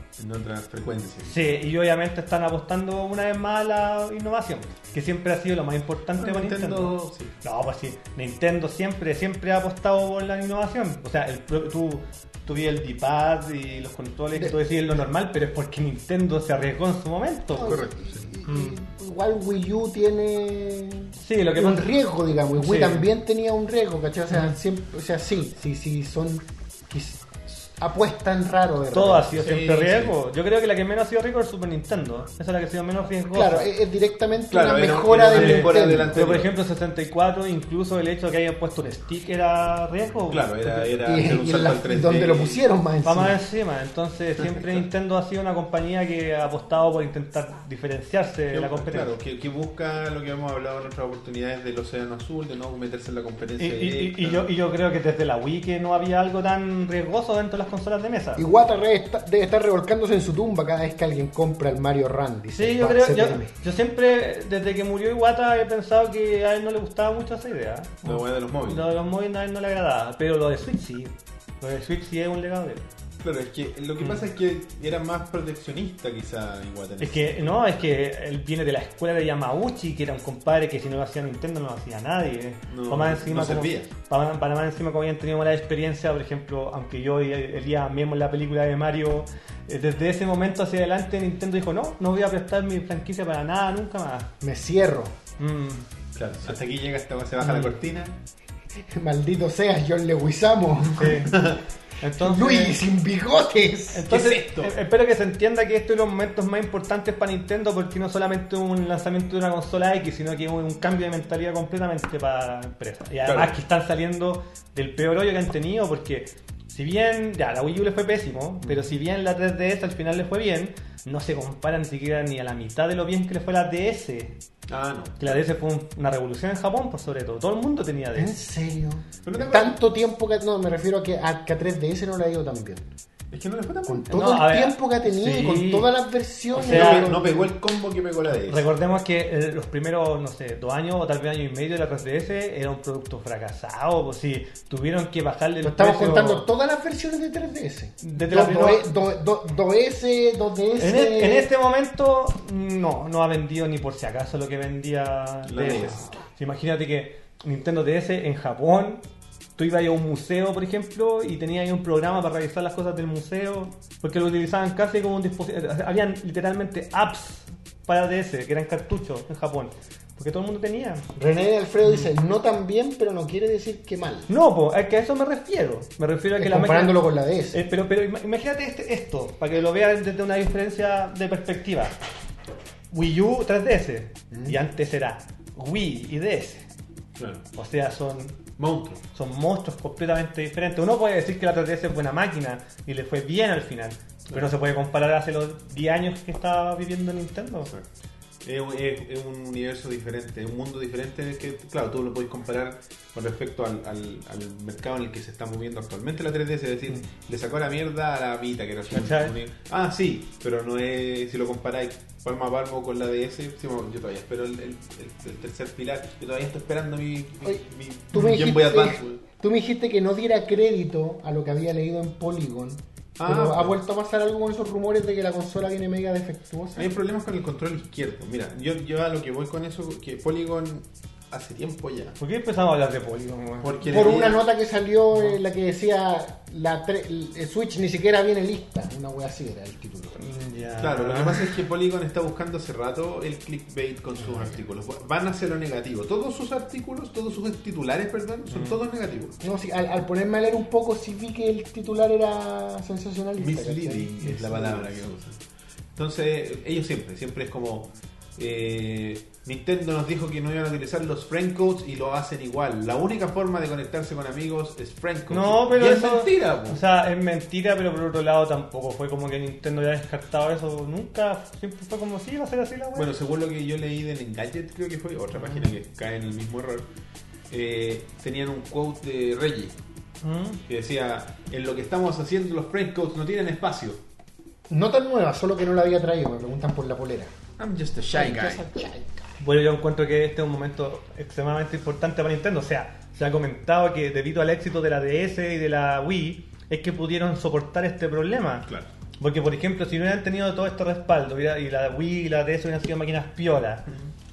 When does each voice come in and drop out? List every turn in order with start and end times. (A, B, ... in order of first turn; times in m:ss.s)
0:00.2-0:01.4 A
0:01.2-0:17.8 B
0:06.2-0:07.3 A
0:17.5-0:29.4 C
0:17.6-0:18.3 A
0:18.4-0:18.8 B
0:21.2-0:21.9 B
0:22.6-0:23.1 B
0:28.9-0:33.7 B
0:29.4-0:30.1 A
0:33.3-0:36.3 C
0:34.5-0:36.5 A
0:35.3-0:41.1 B
0:40.3-0:42.6 A
0:41.0-0:43.4 C
0:43.0-0:49.2 B
0:44.4-0:44.8 A
0:48.5-0:54.5 A
0:53.6-0:58.5 B
0:58.4-1:03.5 C
1:02.6-1:12.9 B
1:08.0-1:08.9 A
1:13.2-1:17.4 A
1:17.0-1:34.3 B
1:22.7-1:23.9 A
1:34.4-1:35.1 C
1:35.4-1:35.9 B
1:36.2-1:38.2 A
1:37.4-1:37.8 B
1:38.9-1:41.3 C
1:40.9-1:42.8 B
1:41.0-1:41.6 A
1:42.2-1:44.1 C
1:43.9-2:04.4 B
1:44.1-1:44.8 A
1:53.2-1:53.6 A
2:04.7-2:05.4 A
2:05.2-2:08.4 B
2:08.2-2:12.8 C
2:09.2-2:09.8 A
2:13.3-2:14.1 A
2:13.9-2:17.5 C
2:14.1-2:15.9 B
2:16.5-2:17.2 B
2:16.6-2:18.7 A
2:18.4-2:26.5 B
2:25.6-2:31.5 C
2:28.0-2:28.9 B
2:30.8-2:39.0 B
2:35.5-2:36.1 A
2:39.6-2:51.1 B
2:51.2-2:54.3 C
2:51.8-2:52.1 B
2:54.3-3:02.0 B
2:56.4-2:57.6 C
3:02.9-3:06.7 B
3:04.3-3:04.6 C
3:07.2-3:07.4 A
3:07.6-3:08.4 B
3:08.6-3:09.0 A
3:09.1-3:17.7 B
3:18.4-3:39.2 A
3:28.9-3:29.4 B
3:37.4-3:46.9 C
3:43.2-3:43.8 A
3:46.8-3:52.2 A
3:52.2-3:53.8 B
3:53.6-3:54.4 A
3:53.8-4:00.2 C
4:00.2-4:01.6 B
4:00.8-4:09.4 A
4:08.5-4:08.8 B
4:09.4-4:15.0 C
4:13.4-4:15.4 A
4:16.0-4:26.8 A
4:25.3-4:33.1 B
4:33.0-4:36.9 A
4:35.3-4:35.7 B
4:37.5-4:39.8 A
4:40.2-4:40.6 B
4:40.7-4:44.0 A
4:44.7-4:47.3 C
4:47.6-4:48.6 A
4:48.1-4:49.2 C
4:49.4-4:58.7 B
4:59.2-5:03.9 B